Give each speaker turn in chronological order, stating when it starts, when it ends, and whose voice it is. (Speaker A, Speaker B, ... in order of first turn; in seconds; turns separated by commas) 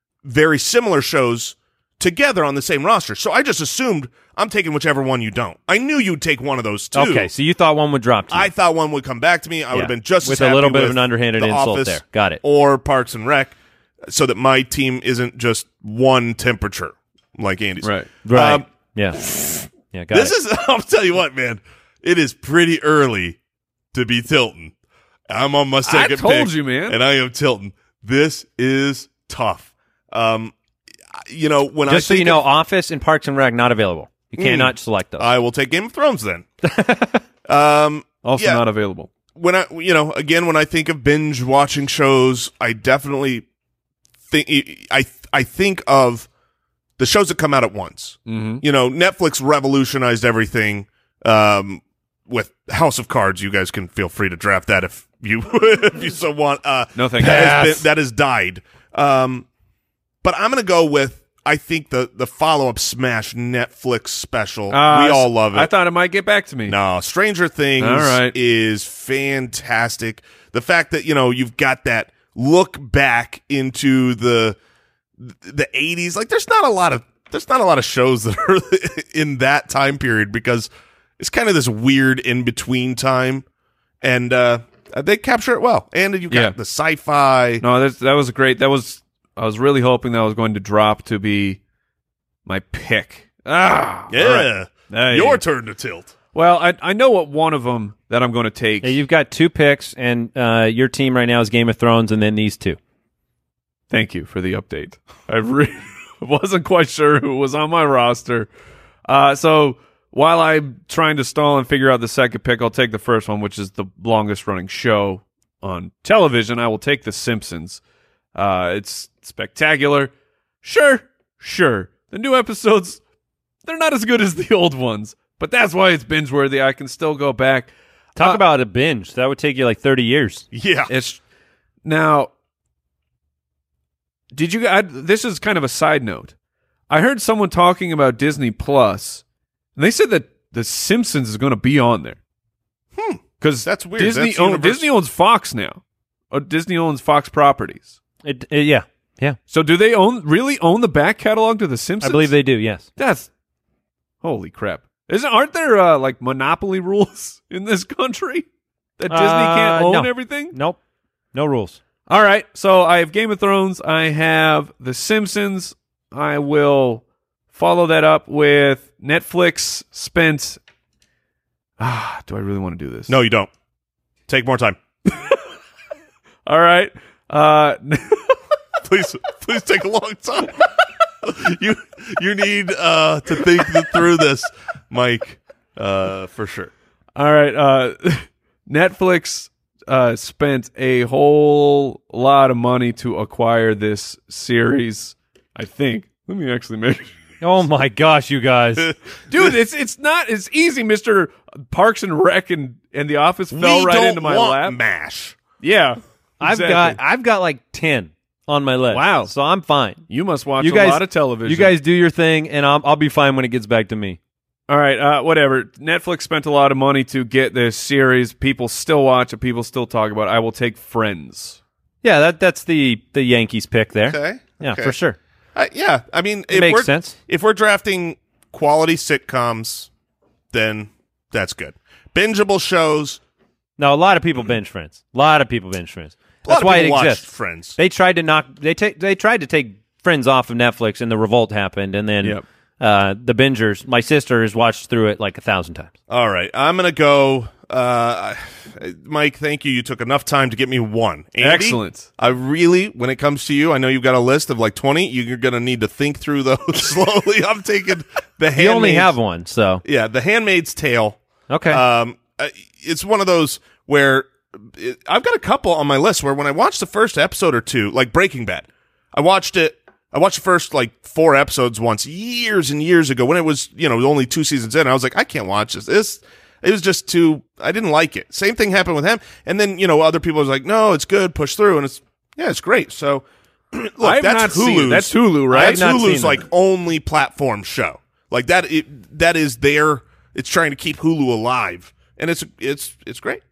Speaker A: 0.2-7.3, Speaker B: 7.0-8.5, Speaker A: 8.3-13.6, Speaker B: 9.7-12.4, Speaker A: 14.1-18.7, Speaker C: 17.8-18.1, Speaker B: 18.2-19.2, Speaker A: 19.2-23.4, Speaker B: 19.9-20.4, Speaker A: 23.9-24.7, Speaker A: 25.3-30.5, Speaker C: 25.9-27.0, Speaker A: 31.1-32.4, Speaker B: 31.9-35.3, Speaker A: 34.4-36.5, Speaker B: 36.6-37.2, Speaker A: 37.5-38.6, Speaker C: 38.2-39.1, Speaker A: 39.4-43.5, Speaker A: 44.3-46.3, Speaker A: 47.0-59.5, Speaker C: 48.3-48.6, Speaker C: 57.0-57.9, Speaker A: 60.2-65.7, Speaker C: 64.7-66.8, Speaker A: 66.7-74.6, Speaker C: 67.8-68.3, Speaker A: 75.2-83.5, Speaker A: 84.0-87.6, Speaker C: 86.3-86.6, Speaker C: 87.6-91.6, Speaker C: 92.5-95.4, Speaker A: 94.1-96.1, Speaker C: 96.3-99.0, Speaker B: 98.8-102.8, Speaker C: 103.9-108.5, Speaker C: 109.1-117.8, Speaker C: 118.3-120.1, Speaker C: 120.6-123.0, Speaker C: 123.7-128.4, Speaker B: 128.2-130.5, Speaker A: 130.5-130.9, Speaker C: 130.9-131.2, Speaker C: 131.8-132.3, Speaker C: 134.3-136.3, Speaker C: 136.9-139.2, Speaker C: 139.8-142.2, Speaker A: 142.9-144.9, Speaker C: 143.4-145.8, Speaker C: 146.3-147.9, Speaker B: 148.2-149.4, Speaker C: 149.5-152.3, Speaker B: 152.0-152.9, Speaker C: 153.0-153.3, Speaker C: 154.2-158.5, Speaker C: 159.0-160.6, Speaker B: 159.1-160.8, Speaker B: 161.3-161.8, Speaker C: 162.1-170.6, Speaker C: 171.8-173.2, Speaker A: 173.1-173.5, Speaker A: 174.3-174.8, Speaker C: 175.1-175.3, Speaker C: 176.5-178.4, Speaker A: 178.8-180.7, Speaker A: 181.2-186.7, Speaker C: 187.2-197.1, Speaker B: 197.4-198.9, Speaker A: 198.9-199.5, Speaker C: 199.3-204.8, Speaker A: 203.5-205.4, Speaker C: 205.6-207.0, Speaker B: 206.4-210.0, Speaker C: 208.9-209.3, Speaker C: 210.1-211.8, Speaker B: 210.6-214.2, Speaker C: 214.7-221.6, Speaker B: 222.0-225.2, Speaker A: 224.1-225.0, Speaker A: 225.6-229.9, Speaker B: 226.5-227.2, Speaker A: 230.5-233.2, Speaker B: 233.8-245.9, Speaker A: 236.4-237.8, Speaker A: 246.1-259.1, Speaker C: 251.4-252.1, Speaker B: 258.6-259.8, Speaker A: 259.8-293.4, Speaker B: 261.5-261.8, Speaker C: 284.0-285.8, Speaker B: 285.5-286.4